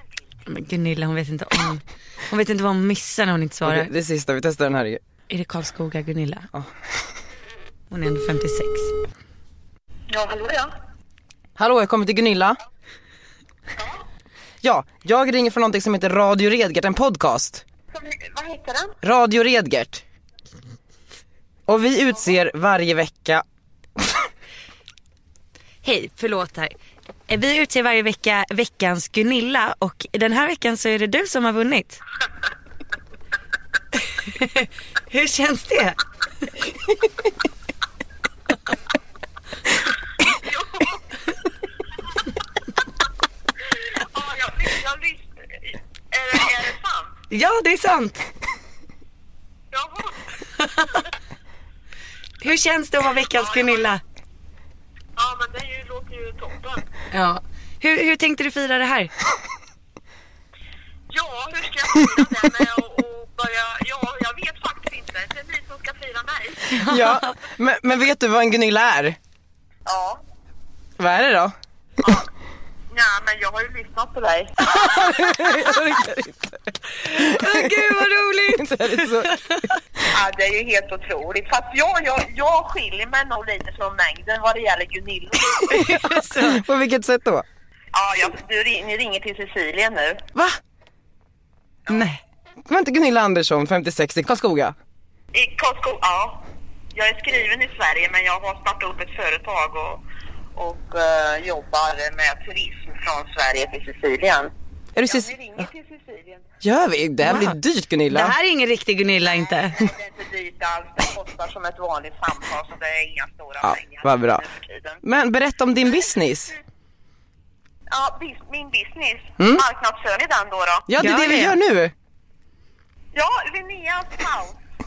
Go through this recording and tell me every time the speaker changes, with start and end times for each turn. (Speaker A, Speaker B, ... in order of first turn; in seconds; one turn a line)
Speaker A: 0.5-3.9
Speaker B: 3.6-5.0
Speaker A: 5.3-6.5
Speaker A: 7.9-8.9
Speaker C: 10.1-10.7
Speaker B: 11.6-12.6
Speaker B: 14.6-17.6
Speaker C: 17.9-18.9
Speaker B: 19.0-20.0
Speaker B: 21.7-23.4
Speaker B: 24.0-24.2
Speaker A: 25.8-26.7
Speaker A: 27.3-32.0
Speaker A: 34.2-36.0
Speaker C: 40.2-41.0
Speaker C: 44.0-47.1
Speaker A: 47.3-48.3
Speaker C: 49.7-50.1
Speaker A: 50.6-50.9
Speaker A: 52.4-54.0
Speaker C: 53.3-54.0
Speaker C: 55.1-56.9
Speaker A: 57.1-59.1
Speaker C: 61.1-66.8
Speaker A: 66.7-67.3
Speaker B: 66.8-69.2
Speaker C: 69.8-70.2
Speaker B: 71.0-71.5
Speaker C: 72.9-75.4
Speaker B: 74.7-79.4
Speaker A: 77.1-79.8
Speaker C: 80.1-85.7
Speaker A: 85.5-86.6
Speaker B: 85.6-87.4
Speaker C: 87.9-90.2
Speaker B: 91.9-94.8
Speaker C: 95.3-96.4
Speaker C: 96.9-100.0
Speaker C: 100.5-104.5
Speaker B: 104.9-105.6
Speaker C: 105.0-106.5
Speaker B: 106.6-108.3
Speaker A: 107.2-107.6
Speaker A: 108.1-109.8
Speaker C: 109.7-115.0
Speaker B: 113.6-114.4
Speaker B: 115.0-116.5
Speaker C: 117.9-120.9
Speaker B: 120.9-121.9
Speaker A: 121.0-121.5
Speaker C: 123.1-124.6